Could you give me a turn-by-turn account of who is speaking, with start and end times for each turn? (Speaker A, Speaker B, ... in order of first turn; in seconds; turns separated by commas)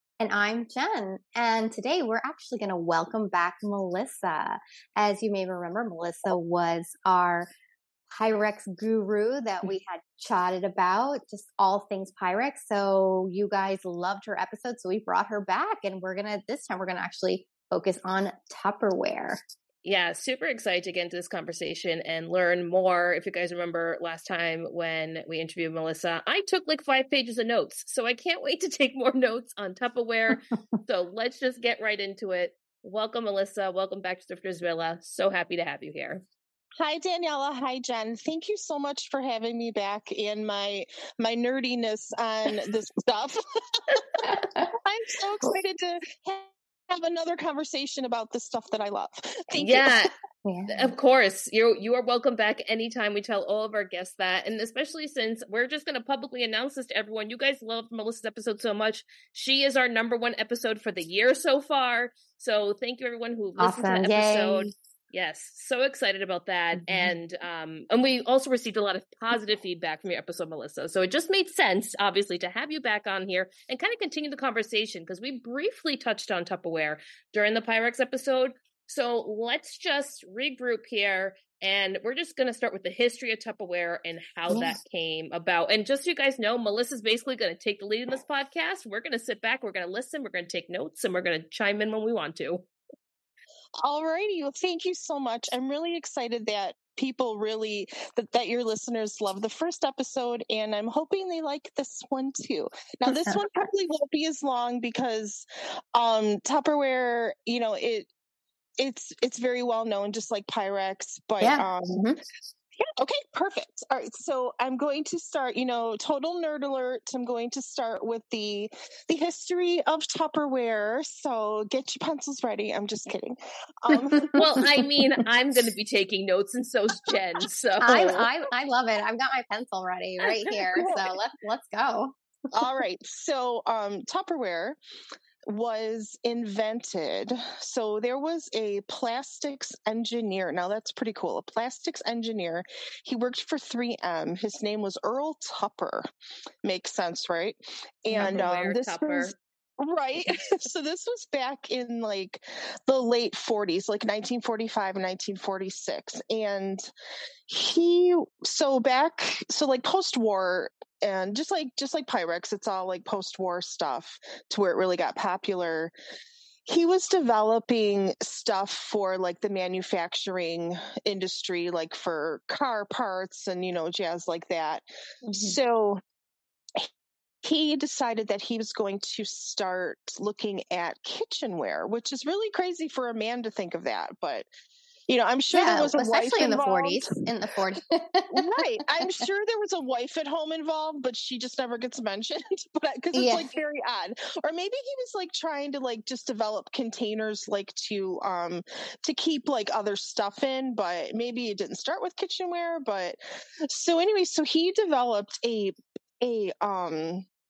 Speaker A: 0.2-7.5, Speaker A: 8.1-19.4, Speaker B: 19.8-36.2, Speaker C: 36.8-43.4, Speaker A: 44.2-44.6, Speaker C: 44.8-50.1, Speaker B: 49.6-50.1, Speaker A: 50.5-50.9, Speaker B: 50.7-92.7, Speaker A: 63.6-64.7, Speaker A: 66.8-67.1, Speaker A: 84.5-84.8, Speaker C: 93.8-108.1, Speaker A: 103.0-103.4, Speaker C: 108.8-112.0, Speaker A: 111.4-112.2, Speaker C: 113.0-124.4, Speaker A: 123.9-124.4, Speaker B: 124.4-128.2, Speaker A: 127.8-132.7, Speaker C: 127.8-128.2, Speaker C: 130.4-131.1, Speaker C: 132.5-134.8, Speaker C: 135.5-146.1, Speaker C: 146.6-156.9, Speaker B: 148.1-149.3, Speaker C: 157.5-165.9, Speaker C: 166.7-176.0, Speaker A: 175.2-175.6, Speaker C: 177.4-184.5, Speaker C: 185.1-187.1, Speaker A: 185.5-188.6, Speaker C: 188.3-207.3, Speaker A: 193.1-193.5